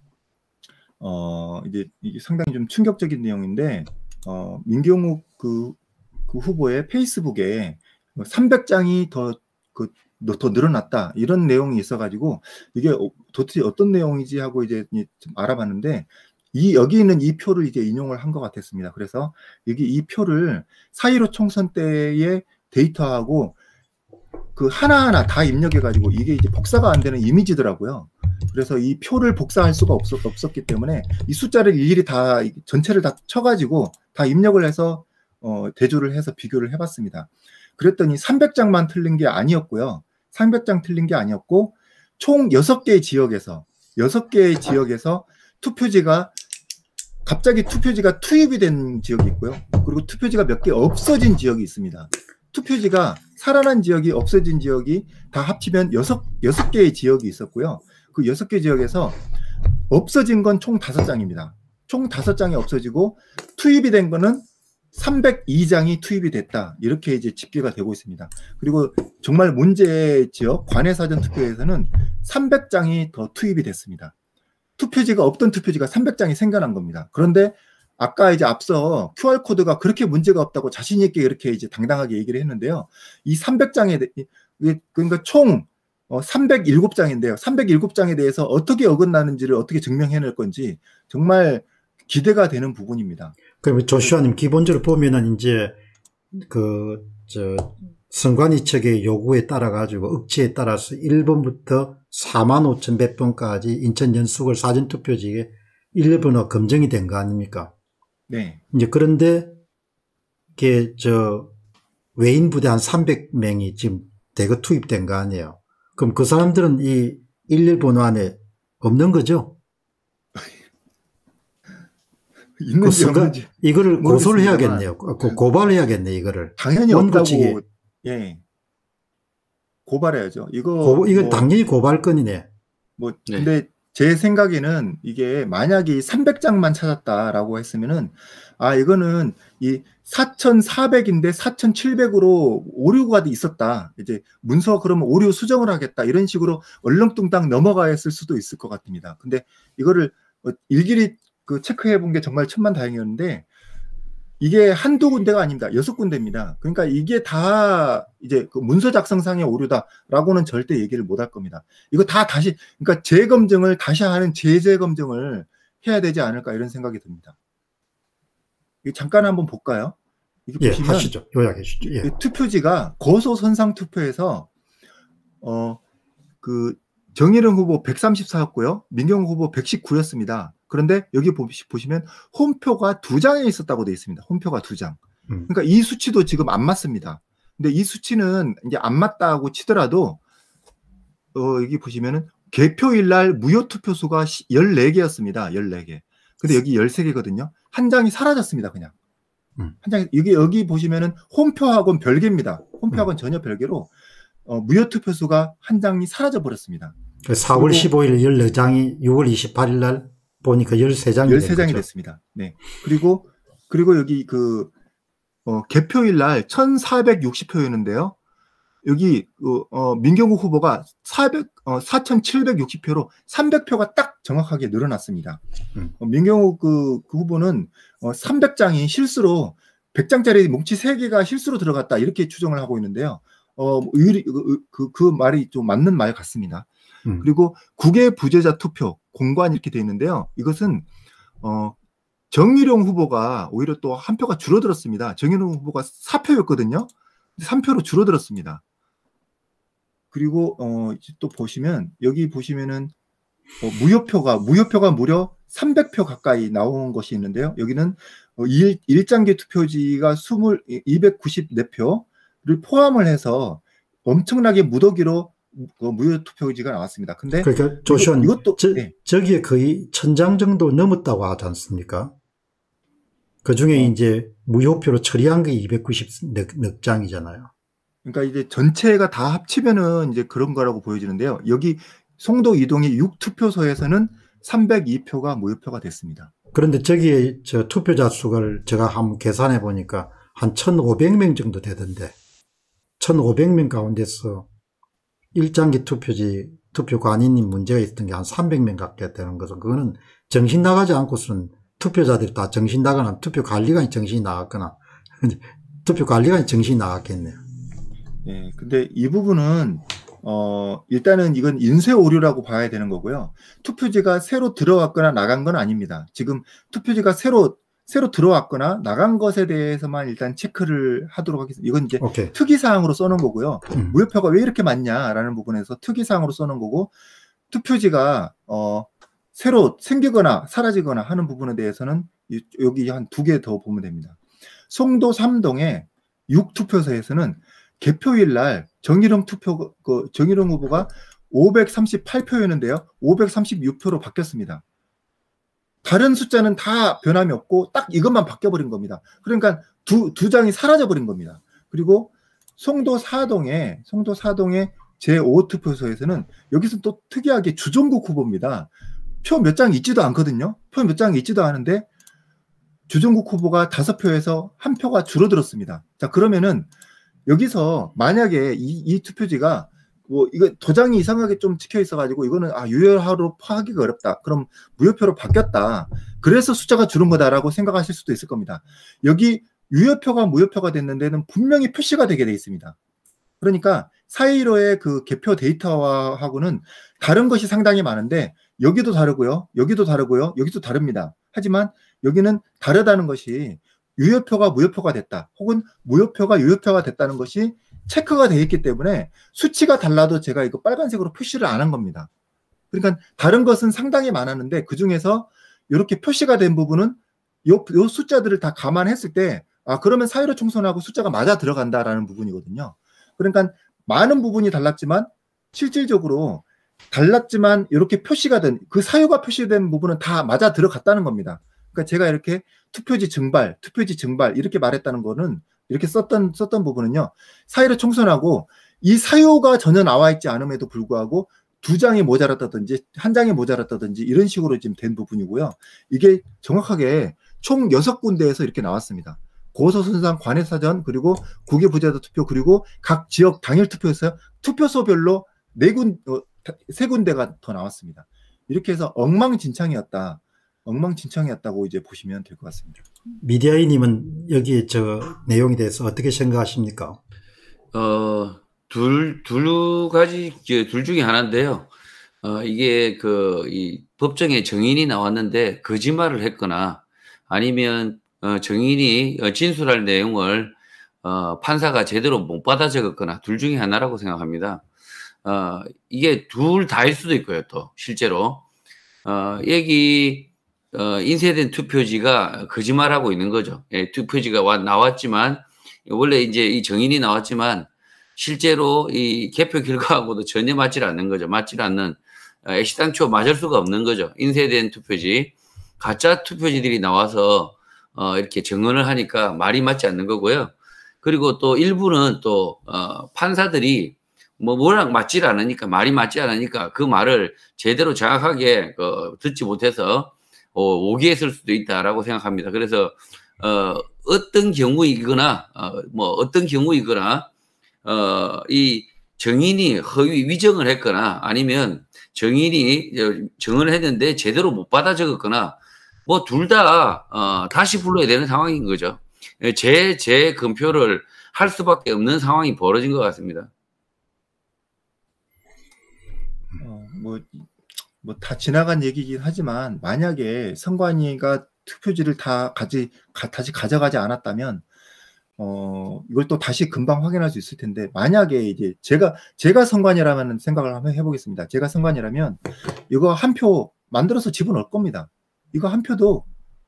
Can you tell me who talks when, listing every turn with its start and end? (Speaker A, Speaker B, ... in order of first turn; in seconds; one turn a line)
Speaker A: 1.0-5.8
Speaker A: 6.3-23.6
Speaker A: 24.6-46.3
Speaker A: 47.2-59.2
Speaker A: 59.9-74.1
Speaker A: 74.8-93.3
Speaker B: 93.6-95.8
Speaker B: 96.3-107.7
Speaker A: 108.3-108.6
Speaker B: 108.7-109.6
Speaker B: 110.6-111.5
Speaker B: 112.2-119.6
Speaker A: 122.6-125.4
Speaker B: 122.8-127.6
Speaker A: 126.6-128.4
Speaker A: 129.8-131.5
Speaker B: 130.8-132.4
Speaker A: 133.0-153.4
Speaker A: 154.4-167.3
Speaker A: 168.8-169.9
Speaker A: 170.5-171.1
Speaker B: 170.6-172.1
Speaker A: 171.8-174.5
Speaker A: 175.4-175.8
Speaker A: 176.4-190.2
Speaker A: 191.3-198.9
Speaker A: 199.8-203.9
Speaker A: 204.4-206.9
Speaker B: 207.2-211.8
Speaker A: 207.5-207.9
Speaker A: 211.2-214.7
Speaker A: 215.4-218.1
Speaker A: 218.8-225.4
Speaker A: 226.0-236.7
Speaker A: 237.2-240.8
Speaker A: 241.4-241.8
Speaker A: 242.3-248.6
Speaker A: 250.1-252.9
Speaker A: 253.6-268.9
Speaker B: 267.4-272.1
Speaker B: 273.4-277.5
Speaker A: 278.0-286.3
Speaker B: 286.5-292.1
Speaker B: 293.0-294.5
Speaker B: 295.3-307.4
Speaker A: 308.2-326.9
Speaker B: 322.0-322.3
Speaker A: 327.5-334.2
Speaker A: 334.7-344.6
Speaker A: 345.8-358.7
Speaker A: 359.2-361.9
Speaker A: 362.9-366.7
Speaker A: 367.2-382.7
Speaker A: 383.4-402.1
Speaker A: 402.7-452.8
Speaker B: 453.2-457.0
Speaker C: 457.7-461.7
Speaker C: 462.2-474.6
Speaker C: 475.2-478.4
Speaker C: 479.0-517.3
Speaker C: 517.8-533.5
Speaker A: 536.6-537.5
Speaker A: 538.0-544.6
Speaker A: 545.4-556.2